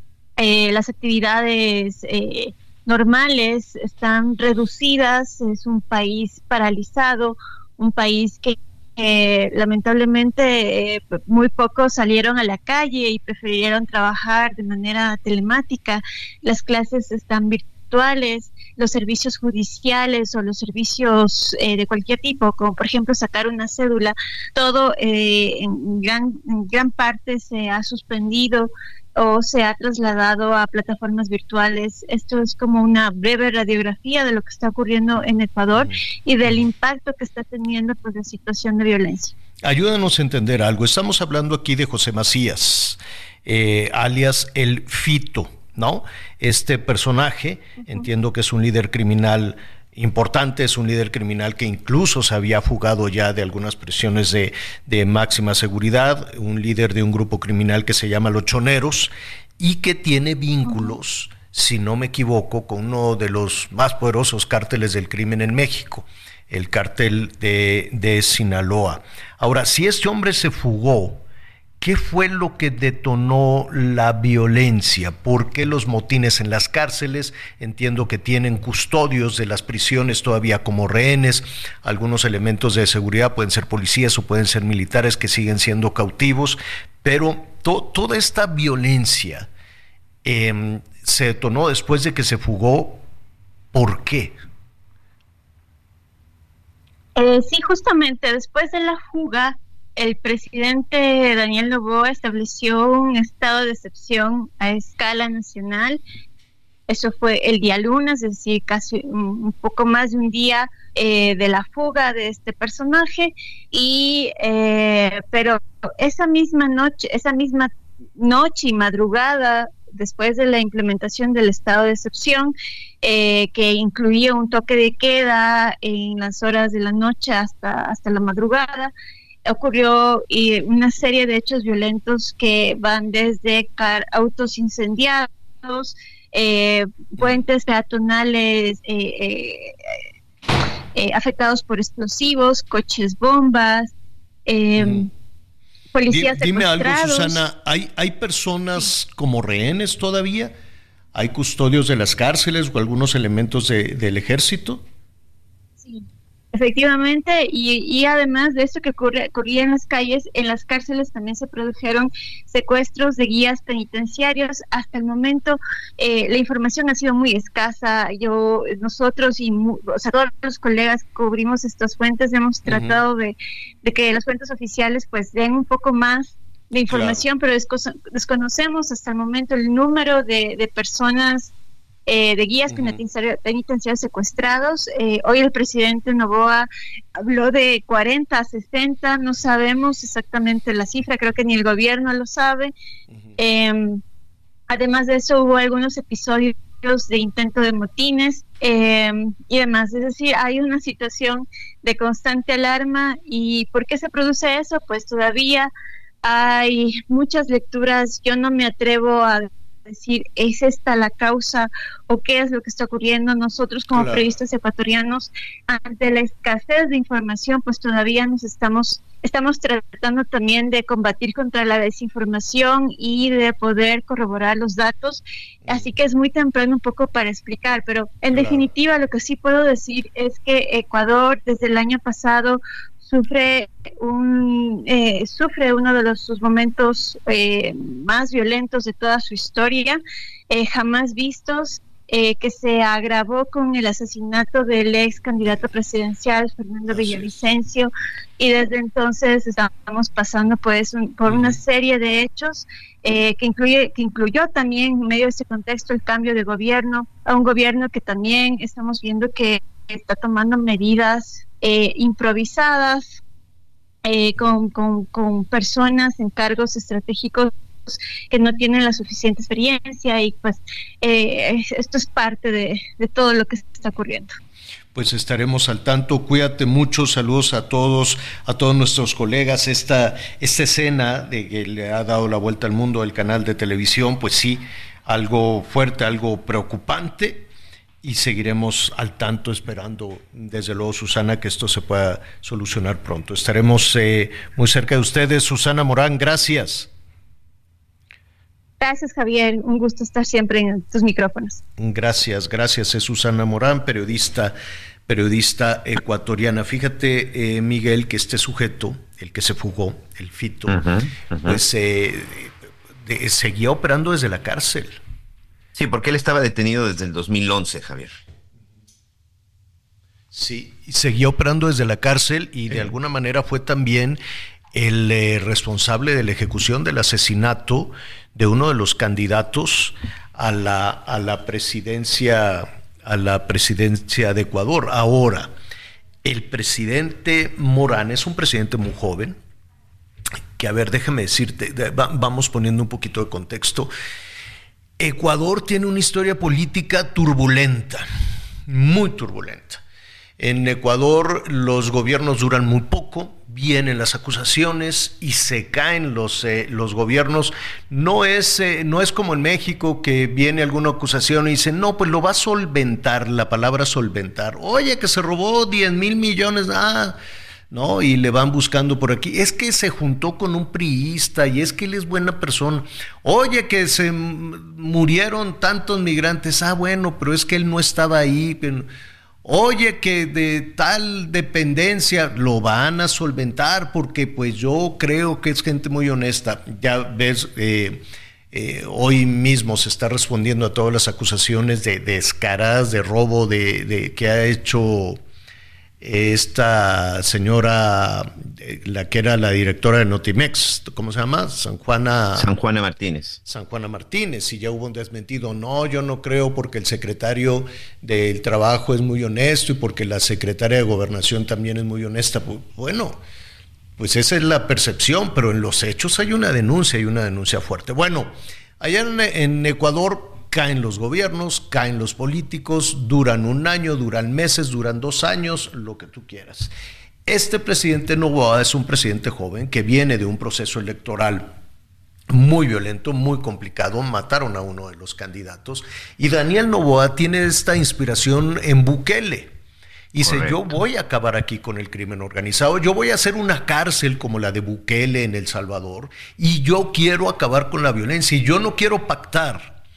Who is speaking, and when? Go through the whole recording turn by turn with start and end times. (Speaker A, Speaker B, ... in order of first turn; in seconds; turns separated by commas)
Speaker A: 0.4-39.3, Speaker B: 39.6-71.2, Speaker B: 71.8-89.5, Speaker B: 90.2-93.0, Speaker B: 93.7-94.3, Speaker A: 97.2-106.0, Speaker A: 106.9-128.9, Speaker A: 129.5-139.7, Speaker A: 140.9-143.9, Speaker A: 144.5-145.1, Speaker B: 144.8-145.1, Speaker A: 145.9-147.4, Speaker B: 146.1-150.5, Speaker B: 151.1-154.8, Speaker A: 155.8-181.5, Speaker B: 172.7-173.0, Speaker B: 176.9-177.2, Speaker A: 182.1-192.7, Speaker B: 182.7-183.0, Speaker A: 193.4-194.0, Speaker A: 194.7-205.7, Speaker A: 206.2-263.1, Speaker B: 213.9-214.2, Speaker B: 228.3-228.7, Speaker B: 246.9-247.3, Speaker B: 251.3-251.6, Speaker A: 264.1-274.4, Speaker B: 274.9-287.5, Speaker B: 288.0-296.9, Speaker A: 298.8-301.6, Speaker B: 301.8-304.6, Speaker B: 305.1-310.8, Speaker C: 310.7-311.6, Speaker B: 311.4-315.0, Speaker C: 315.8-318.1, Speaker B: 320.3-324.2, Speaker B: 324.7-335.5, Speaker B: 336.2-339.4, Speaker B: 340.6-343.9, Speaker B: 345.0-348.1, Speaker B: 348.7-349.8, Speaker B: 350.4-367.2, Speaker B: 367.7-378.9, Speaker B: 379.4-395.2, Speaker B: 396.0-402.5, Speaker C: 402.4-403.4, Speaker B: 403.5-413.2, Speaker B: 414.0-426.7, Speaker B: 427.3-431.6, Speaker B: 432.3-439.5, Speaker B: 440.1-449.8, Speaker C: 440.2-440.7